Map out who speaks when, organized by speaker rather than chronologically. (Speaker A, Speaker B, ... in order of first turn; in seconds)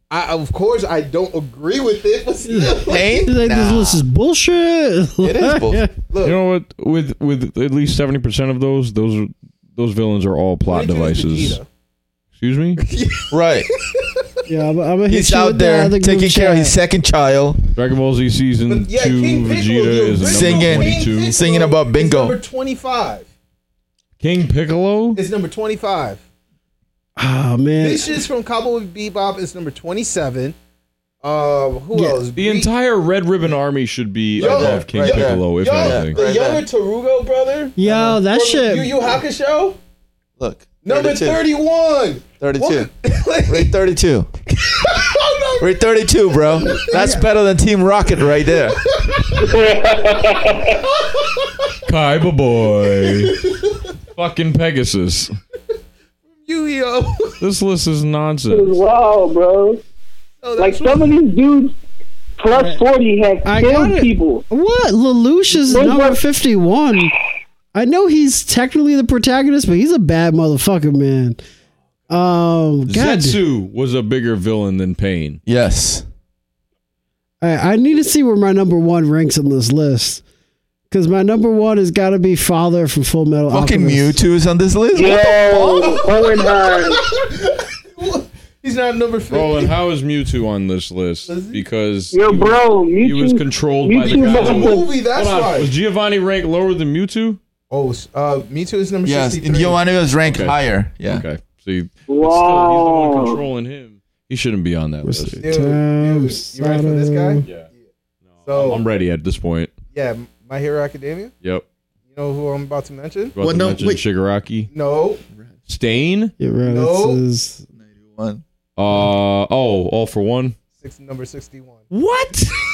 Speaker A: 0.1-3.2, 6.1-6.4, 10.7-11.7, 12.8-13.3, 13.9-14.4, 18.7-23.3, 25.1-26.2, 27.8-30.6, 31.2-32.7, 34.4-39.8, 40.8-43.8, 44.7-47.3, 48.5-49.6, 50.5-51.8, 53.0-53.9, 56.4-57.4, 60.4-61.2, 85.8-89.7, 91.3-91.6, 94.1-95.7, 97.7-99.8, 105.4-107.6, 108.5-108.8, 109.9-111.3, 112.1-113.3, 114.7-115.2, 116.6-117.2, 120.8-121.9
Speaker B: 2.5-5.9, 14.5-16.7, 27.2-28.2, 31.9-32.2, 37.8-39.0, 62.5-62.8, 63.4-67.1, 67.7-71.4, 72.1-73.4, 77.4-80.2, 80.9-84.2, 105.0-107.5, 116.4-117.6
Speaker C: 2.9-4.0, 5.2-5.9, 13.3-13.7, 15.1-17.6, 20.2-22.4, 34.4-36.6, 40.4-41.4, 42.4-42.9, 43.5-44.3, 45.6-48.9, 75.5-76.0, 83.5-86.0, 99.0-101.2, 113.4-114.0, 117.8-118.4
Speaker D: 6.2-11.6, 12.4-12.8, 17.8-21.4, 24.2-25.2, 32.4-36.2, 51.9-53.5, 54.1-55.4, 57.4-58.8, 72.9-75.4, 89.3-97.4, 100.2-105.5, 108.4-109.7, 113.3-114.7, 115.7-116.3, 118.8-120.6, 121.9-122.5
Speaker E: 49.4-50.8, 58.5-59.8, 60.6-61.7, 62.4-64.4, 65.7-66.2, 84.9-87.0, 92.1-94.9, 102.1-103.4